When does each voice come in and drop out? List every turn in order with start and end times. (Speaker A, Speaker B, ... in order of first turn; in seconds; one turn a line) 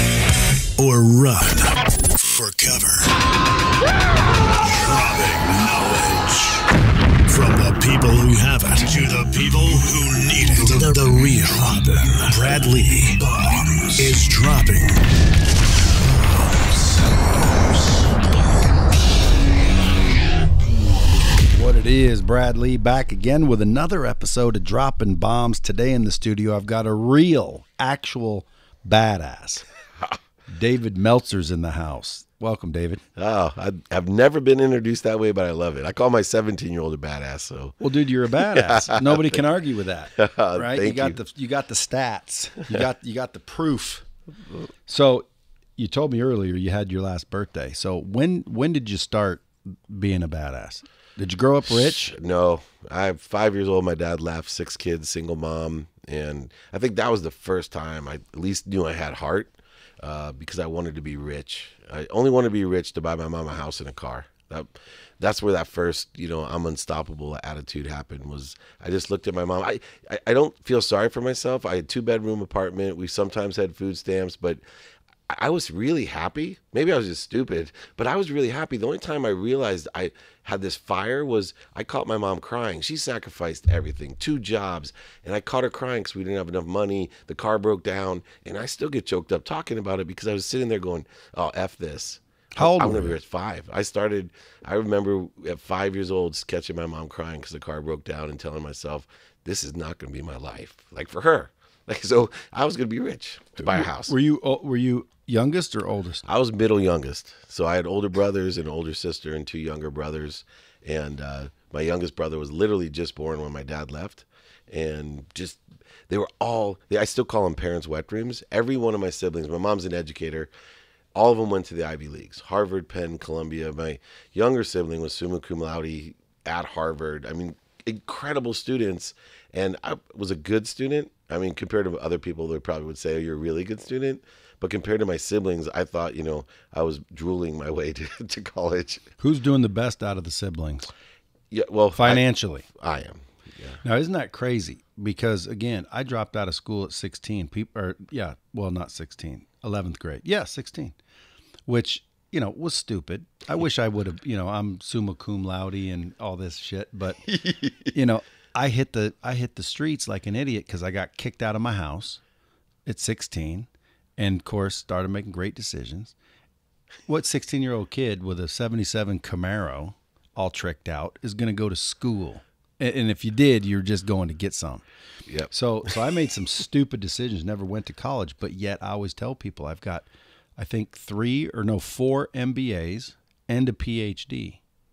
Speaker A: 0.7-3.2
Speaker A: 4.6-6.7
Speaker A: 7.3-15.1
Speaker A: 16.4-17.0
Speaker B: 21.5-29.6
Speaker B: 30.5-33.0
Speaker C: 33.2-37.8
Speaker B: 37.8-44.0
Speaker C: 38.4-39.4
Speaker C: 40.2-41.2
Speaker B: 44.9-45.3
Speaker B: 45.8-52.1
Speaker C: 51.7-74.6
Speaker C: 75.3-104.1
Speaker B: 92.6-93.2
Speaker B: 103.6-106.2
Speaker C: 106.2-120.5
Speaker C: 121.1-139.1
Speaker B: 139.2-140.9
Speaker C: 141.5-143.8
Speaker B: 141.9-142.7
Speaker B: 143.8-151.0
Speaker B: 151.7-157.2
Speaker C: 157.3-157.9
Speaker B: 157.9-162.2
Speaker B: 162.9-166.2
Speaker B: 167.1-174.8
Speaker C: 175.3-175.9
Speaker B: 175.5-180.1
Speaker B: 180.6-184.6